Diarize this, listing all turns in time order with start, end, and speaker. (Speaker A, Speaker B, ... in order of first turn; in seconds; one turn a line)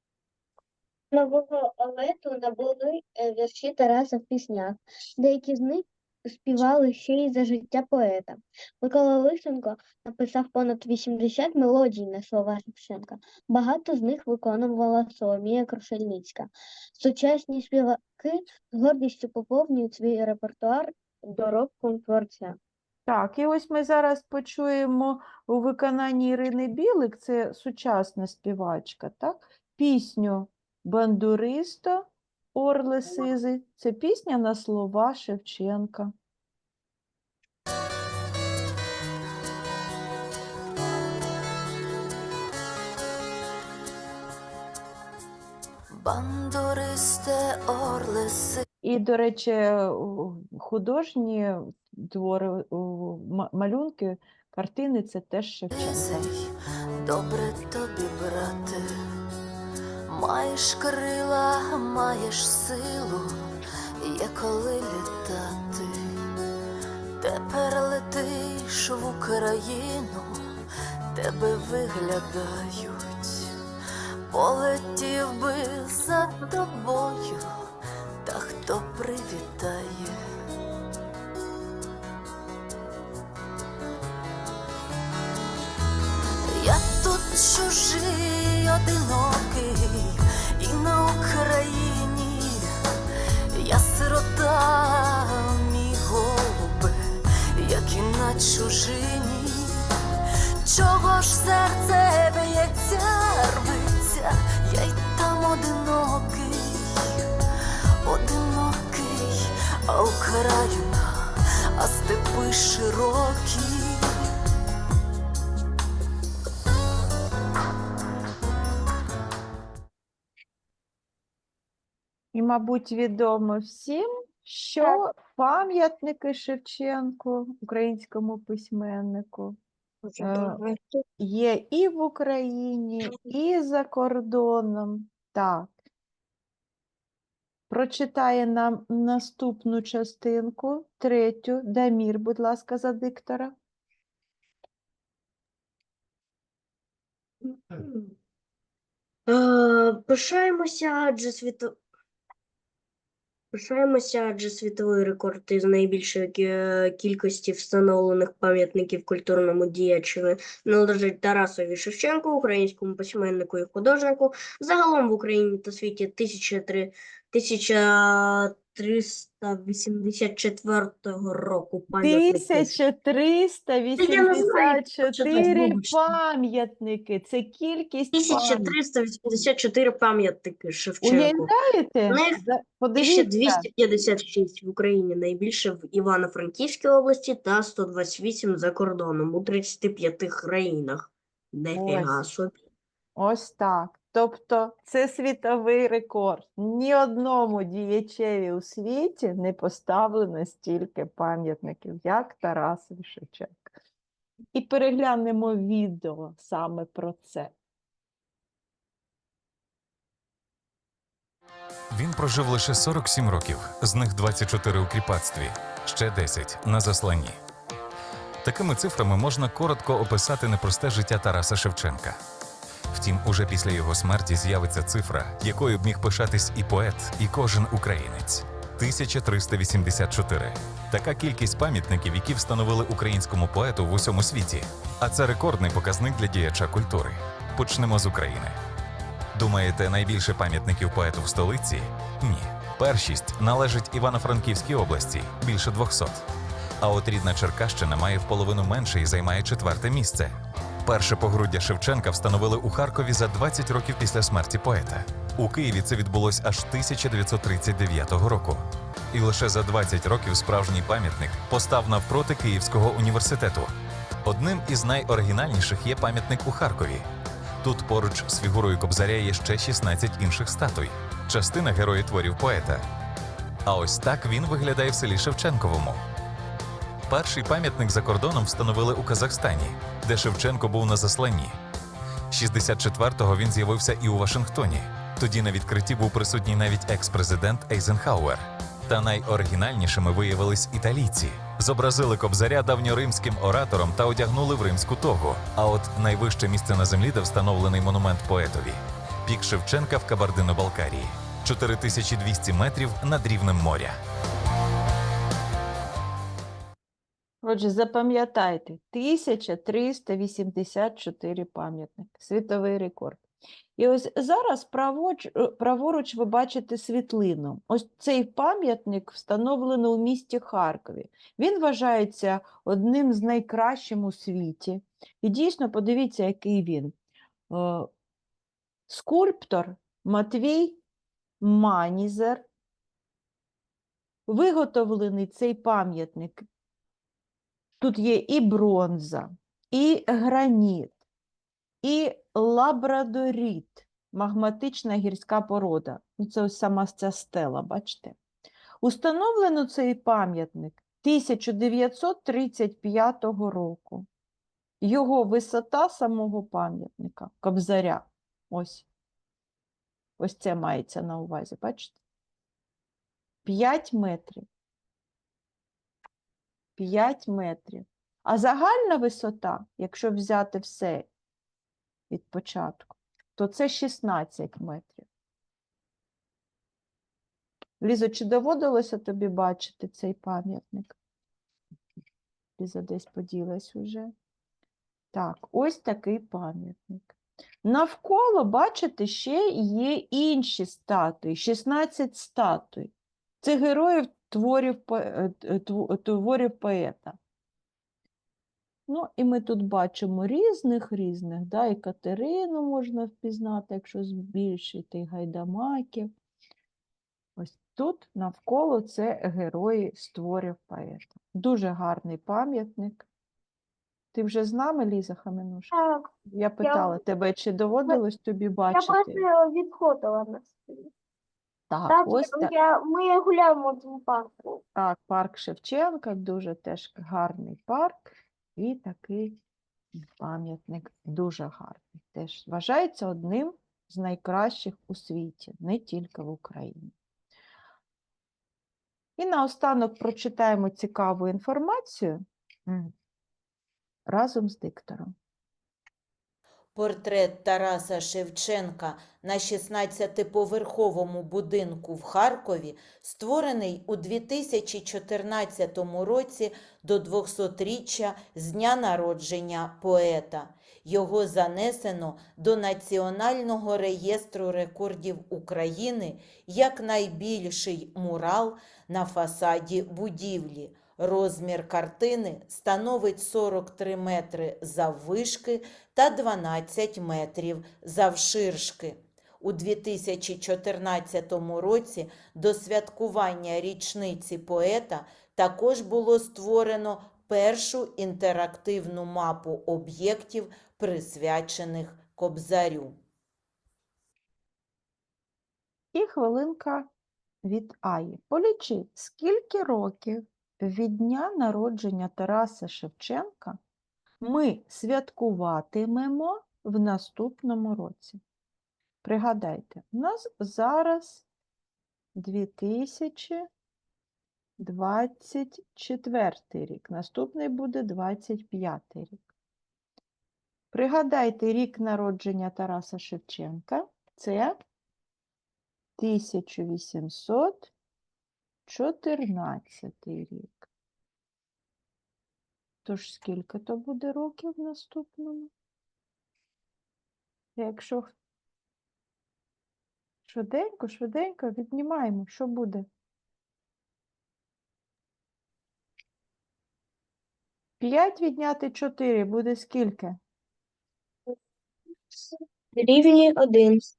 Speaker A: 1.1-22.6
Speaker B: 23.1-36.1
Speaker C: 45.9-48.6
Speaker B: 48.8-56.3
Speaker C: 55.7-56.5
Speaker C: 57.0-59.0
Speaker C: 60.1-63.5
Speaker C: 64.0-66.2
Speaker C: 67.2-70.5
Speaker C: 71.1-73.5
Speaker C: 74.3-77.5
Speaker C: 78.2-80.2
Speaker C: 86.5-92.7
Speaker C: 93.5-97.0
Speaker C: 97.6-99.8
Speaker C: 100.6-107.2
Speaker C: 108.0-114.1
Speaker B: 122.3-129.6
Speaker B: 130.2-130.6
Speaker B: 131.2-135.8
Speaker B: 137.7-143.5
Speaker D: 149.3-151.8
Speaker D: 153.5-172.7
Speaker B: 172.0-178.8
Speaker D: 174.0-176.2
Speaker D: 178.1-181.5
Speaker B: 181.0-183.7
Speaker D: 182.1-182.4
Speaker D: 183.0-192.6
Speaker B: 191.7-192.2
Speaker B: 193.2-203.7
Speaker B: 204.5-207.5
Speaker E: 211.9-217.4
Speaker E: 218.4-222.2
Speaker E: 222.9-238.6
Speaker E: 239.3-246.2
Speaker E: 246.8-250.3
Speaker E: 250.8-258.6
Speaker E: 259.1-263.7
Speaker E: 264.2-267.1
Speaker E: 267.6-272.8
Speaker E: 273.7-276.0
Speaker E: 277.1-281.6
Speaker E: 282.3-304.0
Speaker B: 307.4-313.2
Speaker B: 313.8-326.9
Speaker B: 327.5-327.9
Speaker B: 328.9-330.8
Speaker B: 331.4-332.4
Speaker B: 334.3-336.4
Speaker B: 337.8-341.0
Speaker B: 341.8-348.2
Speaker B: 348.8-354.1
Speaker B: 354.8-358.9
Speaker B: 360.2-362.0
Speaker B: 363.4-364.4
Speaker B: 366.8-371.1
Speaker B: 372.1-375.1
Speaker B: 377.8-380.9
Speaker B: 382.6-384.1
Speaker B: 385.1-397.2
Speaker B: 398.9-406.1
Speaker B: 407.4-413.1
Speaker B: 414.1-415.7
Speaker F: 415.7-416.1
Speaker B: 416.3-419.2
Speaker F: 416.6-417.0
Speaker F: 418.7-420.9
Speaker B: 421.7-422.5
Speaker F: 421.9-424.6
Speaker B: 424.8-429.4
Speaker B: 430.2-436.9
Speaker B: 439.2-442.9
Speaker B: 444.1-445.1
Speaker G: 446.8-493.0
Speaker B: 495.9-496.9
Speaker B: 497.4-503.6
Speaker B: 504.2-508.2
Speaker B: 509.0-511.2
Speaker B: 512.2-513.5
Speaker B: 514.6-519.3
Speaker B: 520.7-524.6
Speaker B: 526.0-527.7
Speaker B: 528.7-530.7
Speaker B: 532.9-535.5
Speaker B: 537.6-538.1
Speaker B: 540.3-542.9
Speaker B: 547.8-550.2
Speaker F: 552.8-553.8